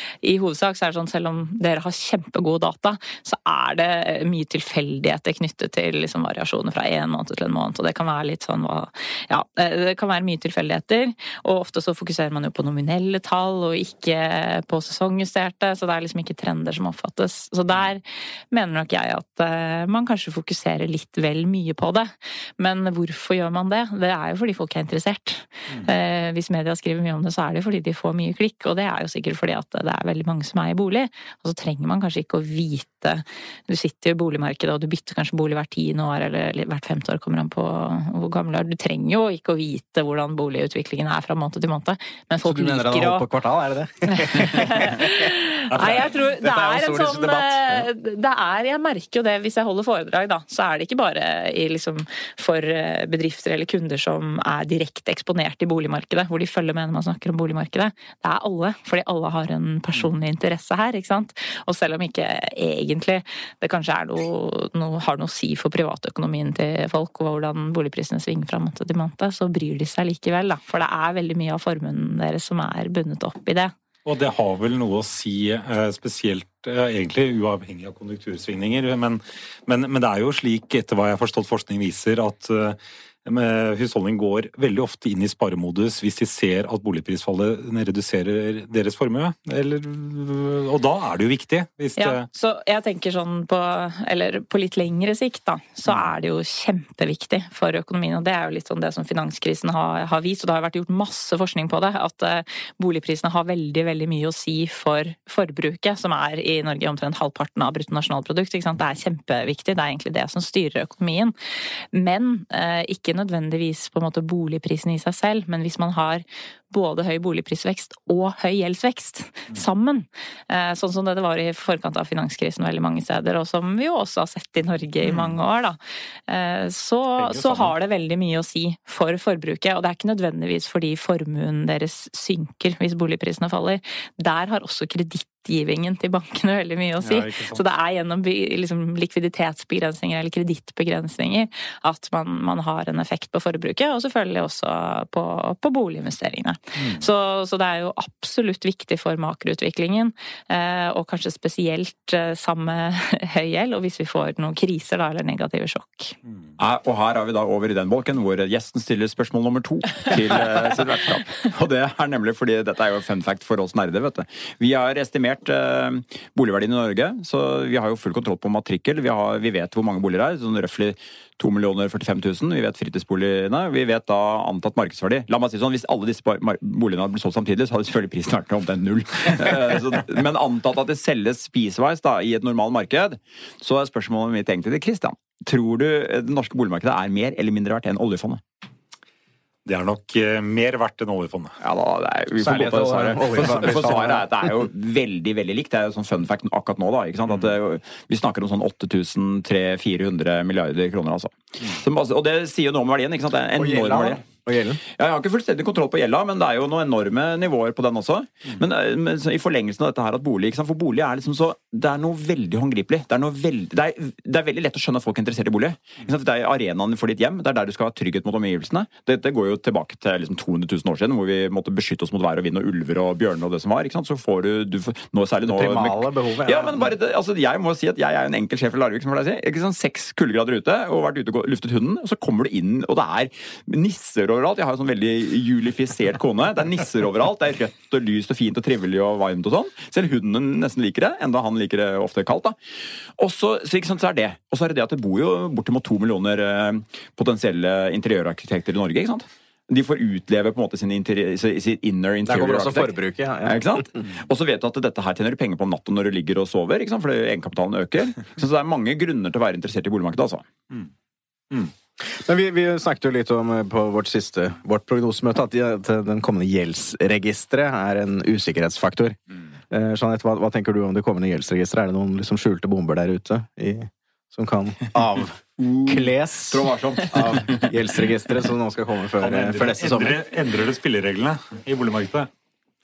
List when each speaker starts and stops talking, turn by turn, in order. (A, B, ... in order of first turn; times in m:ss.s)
0:00.2-0:43.3 A
0:42.4-0:47.9 B
0:44.1-1:13.7 A
0:45.7-0:46.1 C
1:14.0-1:32.3 C
1:32.0-1:51.3 A
1:35.9-1:36.1 C
1:51.9-2:05.8 A
2:05.0-2:05.3 C
2:06.3-2:36.2 A
2:07.2-2:07.7 C
2:17.0-2:17.6 C
2:36.6-3:08.4 D
3:09.7-3:11.6 C
3:11.6-3:24.2 D
3:12.4-3:14.5 B
3:23.6-3:24.8 B
3:24.9-4:02.6 D
3:45.5-3:46.9 B
4:03.2-4:20.5 D
4:12.2-4:13.8 B
4:22.0-4:29.2 B
4:29.7-4:40.2 B
4:35.6-4:37.8 D
4:39.2-4:42.3 C